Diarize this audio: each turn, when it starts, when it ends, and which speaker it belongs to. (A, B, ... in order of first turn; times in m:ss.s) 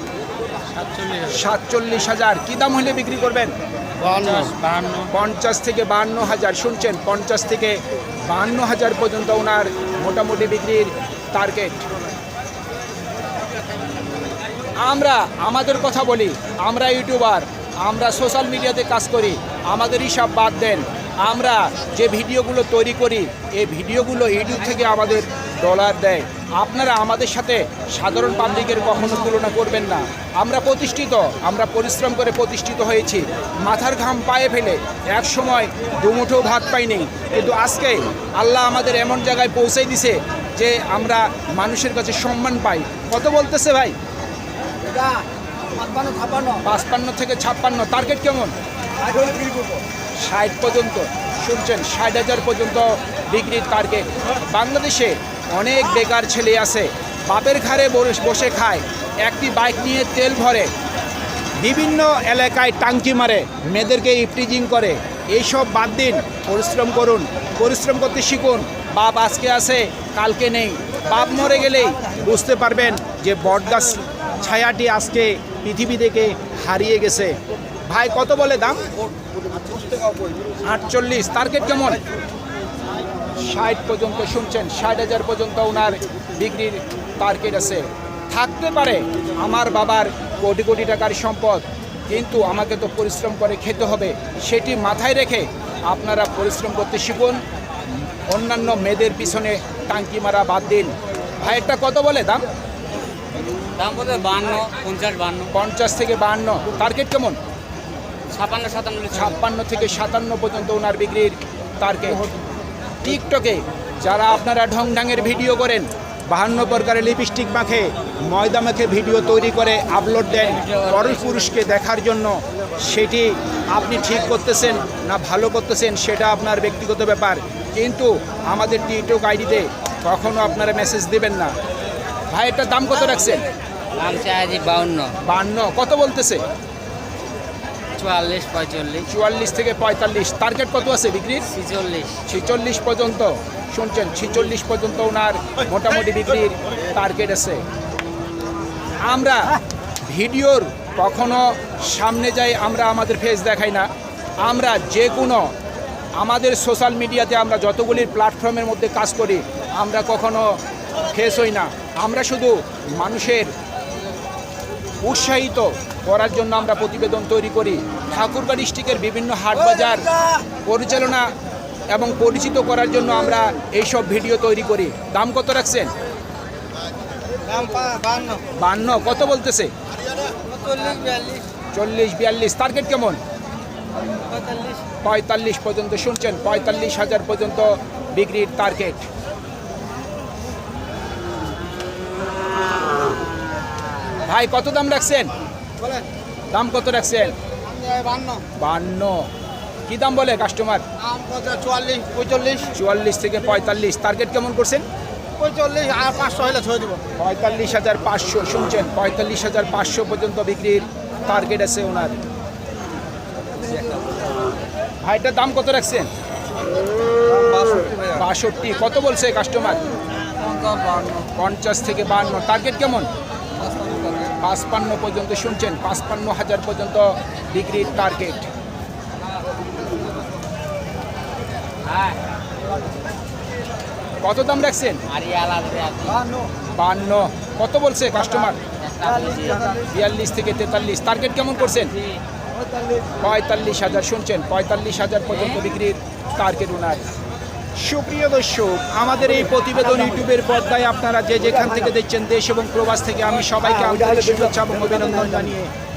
0:00.7-0:01.4 A
0:01.2-0:03.5 B
0:04.0-0:05.1 A
0:05.1-0:11.9 B
0:14.8-0:44.0 B
0:44.9-0:45.2 C
0:45.8-0:46.6 C
0:46.6-0:48.5 B
0:50.2-1:00.7 B
1:01.6-1:18.9 B
1:20.6-1:22.0 B
1:23.4-1:37.4 B
1:38.1-1:42.5 B
1:43.8-1:45.5 A
1:45.5-1:47.4 B
1:48.3-1:49.4 A
1:49.1-1:52.3 B
1:53.0-2:11.5 B
2:00.3-2:01.5 A
2:12.3-2:13.5 B
2:13.9-2:15.2 A
2:15.2-2:16.4 B
2:18.0-2:19.1 A
2:19.1-2:21.5 B
2:21.5-2:22.2 A
2:22.2-2:27.6 B
2:29.0-2:33.9 B
2:34.4-2:35.5 B
2:36.2-2:43.5 B
2:45.0-2:51.3 B
2:51.9-2:55.9 B
2:57.4-2:58.4 C
2:58.5-2:59.7 B
3:00.4-3:01.4 A
3:01.7-3:03.2 B
3:04.2-3:04.8 A
3:05.0-3:09.1 B
3:14.2-3:15.3 B
3:16.5-3:17.3 B
3:17.7-3:18.4 C
3:18.5-3:19.3 B
3:19.9-3:20.8 B
3:21.0-3:22.7 C
3:22.7-3:24.8 B
3:25.4-3:27.0 C
3:27.2-3:32.2 B
3:35.0-3:36.1 B
3:37.5-3:37.9 C
3:38.1-3:39.8 B
3:40.7-3:41.0 C
3:41.1-3:43.1 B
3:44.3-3:48.5 B
3:51.8-3:52.2 A
3:54.2-3:55.0 B
3:55.0-3:56.3 A
3:56.6-3:58.6 B
3:58.8-3:59.7 A
3:59.7-4:01.9 B
4:01.8-4:02.2 A
4:03.2-4:07.1 B
4:05.3-4:05.6 A
4:07.8-4:15.7 B